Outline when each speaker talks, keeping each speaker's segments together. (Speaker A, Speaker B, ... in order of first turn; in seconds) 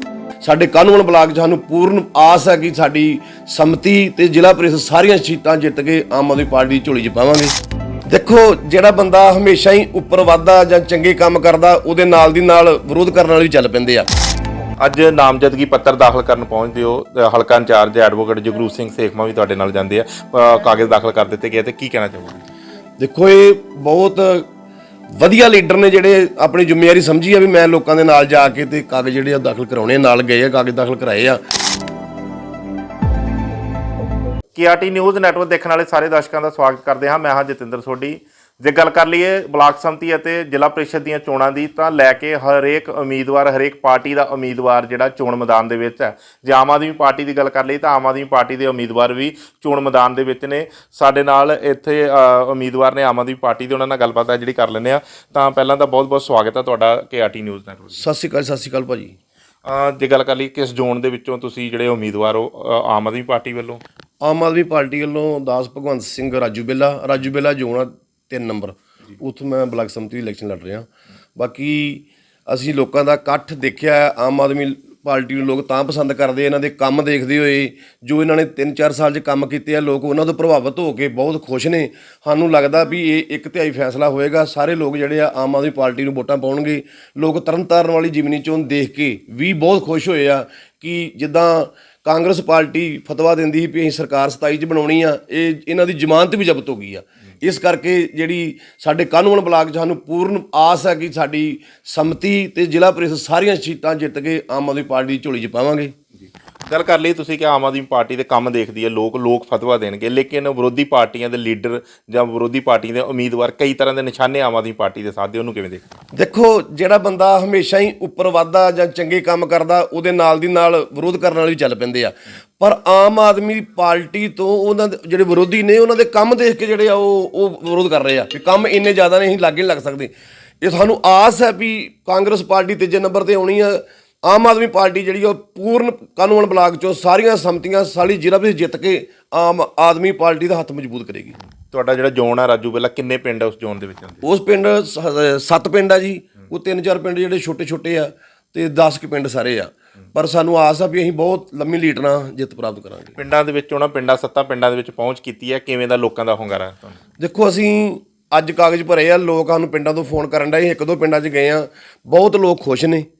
Speaker A: 0.4-7.5, 8.1-14.1, 23.0-24.4, 25.2-31.4, 58.0-59.1, 64.2-105.9, 116.1-130.1, 130.6-141.4, 144.2-153.2, 157.2-163.1
Speaker B: 14.8-22.4, 34.5-58.0, 59.6-63.8, 106.7-115.9, 141.7-144.2, 153.2-157.0